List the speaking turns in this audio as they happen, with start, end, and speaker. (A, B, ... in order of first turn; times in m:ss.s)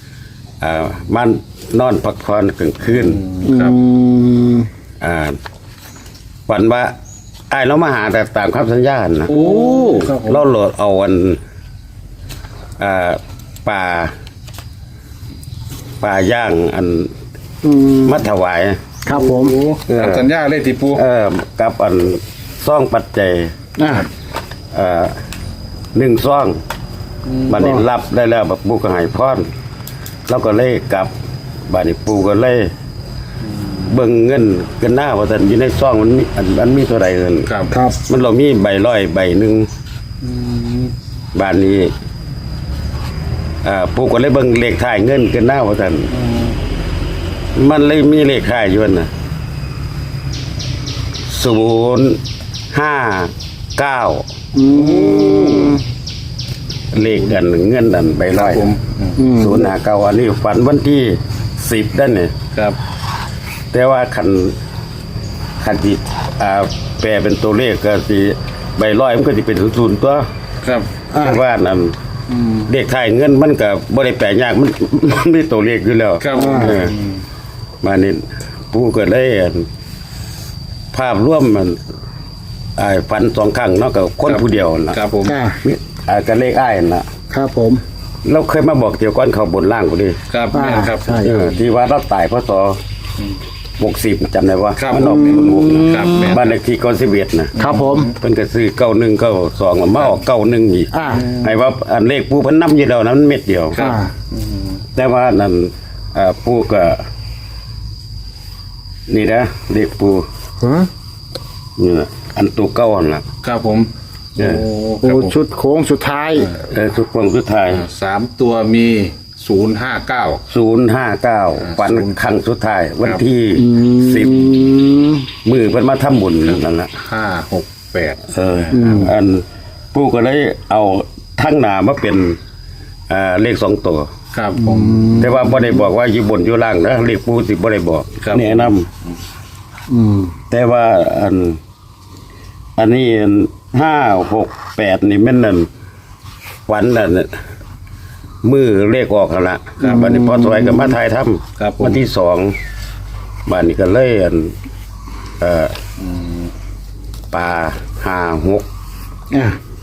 0:00.6-0:03.2 A
0:02.9-0:03.8 B
0:03.4-0:04.7 C
0:05.0-0:05.4 A
0:06.5-0:06.9 A
0:07.5-0:09.4 A
0:09.3-0:10.5 B
0:09.4-0:10.0 C
0:10.0-0:11.4 A
0:12.8-0:14.1 A
0:16.0-0:17.1 A
0:17.6-0:18.2 C
0:18.0-0:18.8 A
0:19.0-0:19.6 C
0:19.1-0:21.0 B
0:19.9-0:20.3 A
0:20.9-0:23.5 A
0:23.8-0:24.1 C
0:24.7-0:25.2 A
0:25.9-0:26.6 A
0:27.3-0:27.5 B
0:27.5-0:29.5 A
0:27.5-0:27.8 C
0:30.3-0:31.1 A
0:31.7-0:32.7 A
0:33.6-0:33.9 B
0:33.9-0:37.5 A
0:37.5-0:37.7 B
0:37.7-0:38.0 C
0:38.1-0:39.7 A
0:40.2-0:40.9 B
0:41.3-0:41.9 A
0:43.6-0:46.1 A
0:47.5-0:49.1 A
0:51.3-0:52.2 A
0:52.7-0:54.2 A
0:54.5-0:55.8 C
0:54.7-0:55.8 B
0:56.9-0:58.7 A
0:58.3-0:59.2 B
0:59.2-0:59.7 C
0:59.3-1:02.3 A
1:03.7-1:04.6 A
1:05.6-1:10.2 A
1:10.6-1:10.9 B
1:11.1-1:11.4 C
1:11.2-1:12.0 A
1:12.6-1:17.0 A
1:16.2-1:17.1 B
1:16.3-1:16.8 C
1:17.8-1:19.7 A
1:20.9-1:21.8 A
1:22.8-1:25.0 A
1:24.2-1:25.4 B
1:25.2-1:25.6 C
1:25.6-1:27.1 A
1:27.3-1:27.8 C
1:28.2-1:30.2 A
1:30.3-1:31.3 B
1:30.5-1:31.5 C
1:31.2-1:32.8 A
1:33.8-1:43.8 A
1:34.8-1:36.5 B
1:35.0-1:36.4 C
1:37.5-1:38.1 B
1:37.6-1:38.1 C
1:40.9-1:41.3 C
1:41.1-1:41.5 B
1:43.7-1:44.8 B
1:43.8-1:44.1 C
1:44.9-1:47.0 A
1:49.1-1:50.2 A
1:50.6-1:50.9 C
1:51.8-1:53.2 A
1:53.4-1:55.3 B
1:54.4-1:54.6 A
1:55.0-1:56.5 C
1:56.6-1:57.8 A
1:57.7-2:00.4 B
2:00.5-2:04.7 A
2:01.6-2:02.1 B
2:03.5-2:05.3 C
2:05.4-2:06.9 A
2:06.4-2:08.9 B
2:08.3-2:12.4 A
2:08.7-2:09.1 C
2:13.1-2:14.1 A
2:14.3-2:15.1 B
2:14.5-2:15.6 C
2:15.2-2:18.9 A
2:18.2-2:18.7 B
2:19.9-2:20.3 C
2:20.5-2:21.6 A
2:22.8-2:25.7 A
2:26.7-2:27.3 A
2:28.4-2:32.5 A
2:29.8-2:31.0 C
2:29.8-2:30.1 B
2:31.6-2:32.0 B
2:33.5-2:34.5 A
2:35.4-2:35.7 A
2:36.0-2:36.5 B
2:37.3-2:38.6 A
2:39.3-2:39.6 C